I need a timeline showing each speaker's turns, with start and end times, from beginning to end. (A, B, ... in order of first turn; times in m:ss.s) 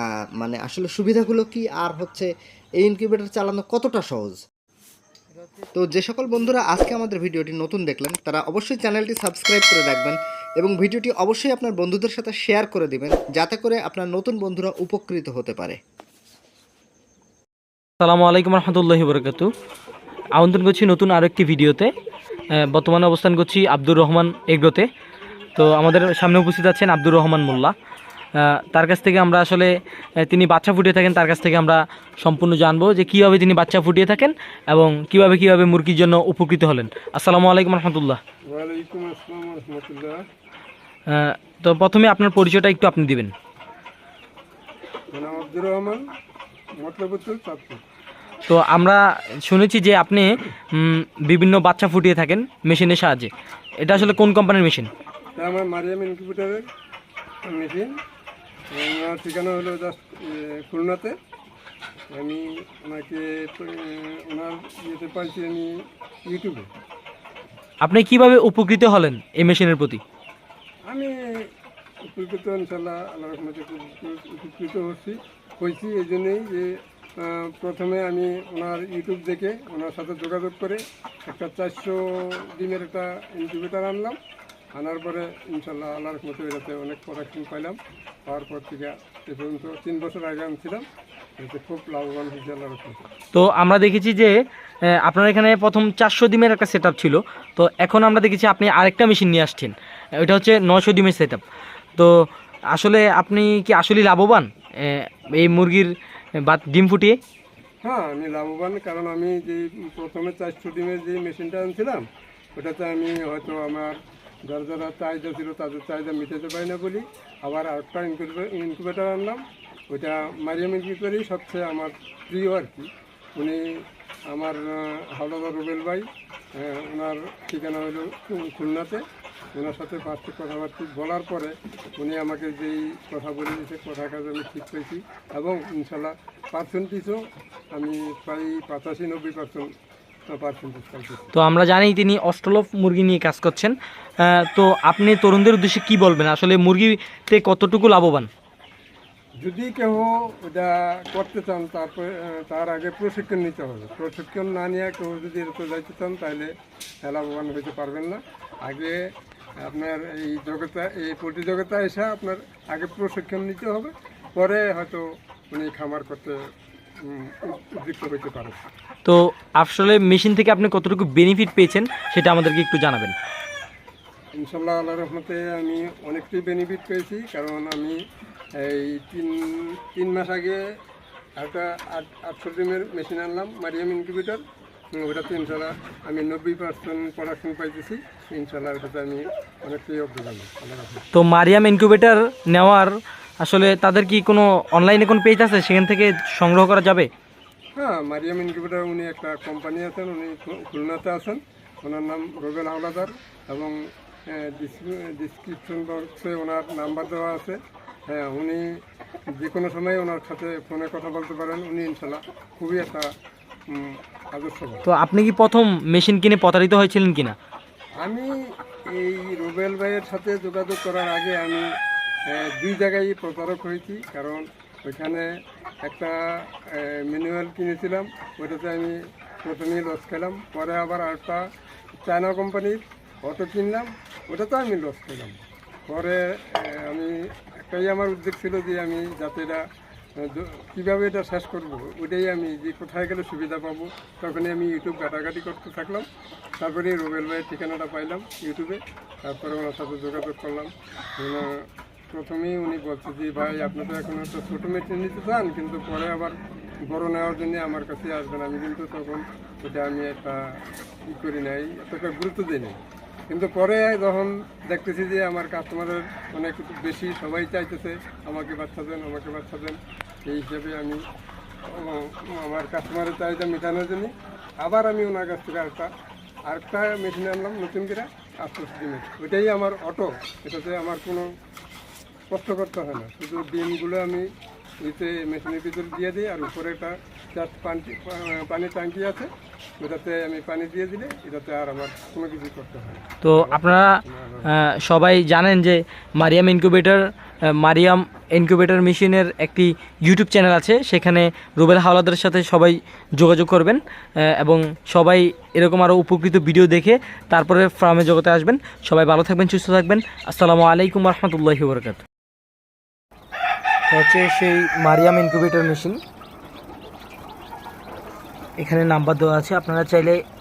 0:00.4-0:02.3 A
0:02.8-0:04.4 A
0:05.8-0:15.8 A
0:18.0-0:19.5 B
0:20.4-0:21.9 B
0:22.6-0:24.9 B
0:25.6-0:27.7 B
0:28.4-0:38.2 B
0:38.5-0:40.2 C
0:41.1-0:43.3 B
0:45.1-0:46.0 C
0:46.8-0:47.8 C
0:48.5-0:54.9 B
0:55.4-0:56.6 C
0:57.5-0:57.9 C
0:58.7-1:01.2 C
1:02.1-1:05.7 C
1:06.3-1:06.7 C
1:07.8-1:10.0 B
1:10.9-1:11.2 C
1:12.1-1:24.2 C
1:24.8-1:30.8 C
1:31.4-1:33.0 C
1:33.3-1:34.4 B
1:35.0-1:41.4 B
1:42.7-1:47.2 B
1:47.8-1:52.0 C
1:52.6-2:03.6 C
2:04.3-2:09.0 C
2:09.5-2:17.2 C
2:17.7-2:19.7 C
2:20.3-2:21.3 C
2:21.3-2:28.3 B
2:29.4-2:36.5 C
2:37.0-2:39.0 C
2:39.6-2:46.4 C
2:47.0-2:48.6 C
2:49.0-2:53.1 B
2:54.4-2:58.0 C
2:58.6-3:00.6 C
3:01.4-3:11.0 C
3:11.1-3:17.1 B
3:17.8-3:23.8 C
3:24.3-3:27.6 C
3:28.1-3:28.6 C
3:29.4-3:33.1 C
3:33.7-3:34.8 C
3:34.9-3:37.4 B
3:38.0-3:38.3 C
3:38.9-3:41.7 C
3:42.3-3:45.3 C
3:45.8-3:51.4 C
3:52.0-3:59.6 C
4:00.2-4:06.1 C
4:06.6-4:11.5 C
4:12.1-4:16.4 C
4:16.9-4:20.4 C
4:21.1-4:22.8 C
4:23.3-4:31.0 C
4:31.7-4:34.1 C
4:34.6-4:35.9 C
4:36.5-4:41.3 C
4:42.3-4:44.3 C
4:44.8-4:54.5 C
4:53.2-4:53.9 B
4:54.5-5:12.0 B
5:13.9-5:16.0 B
5:18.6-5:20.2 B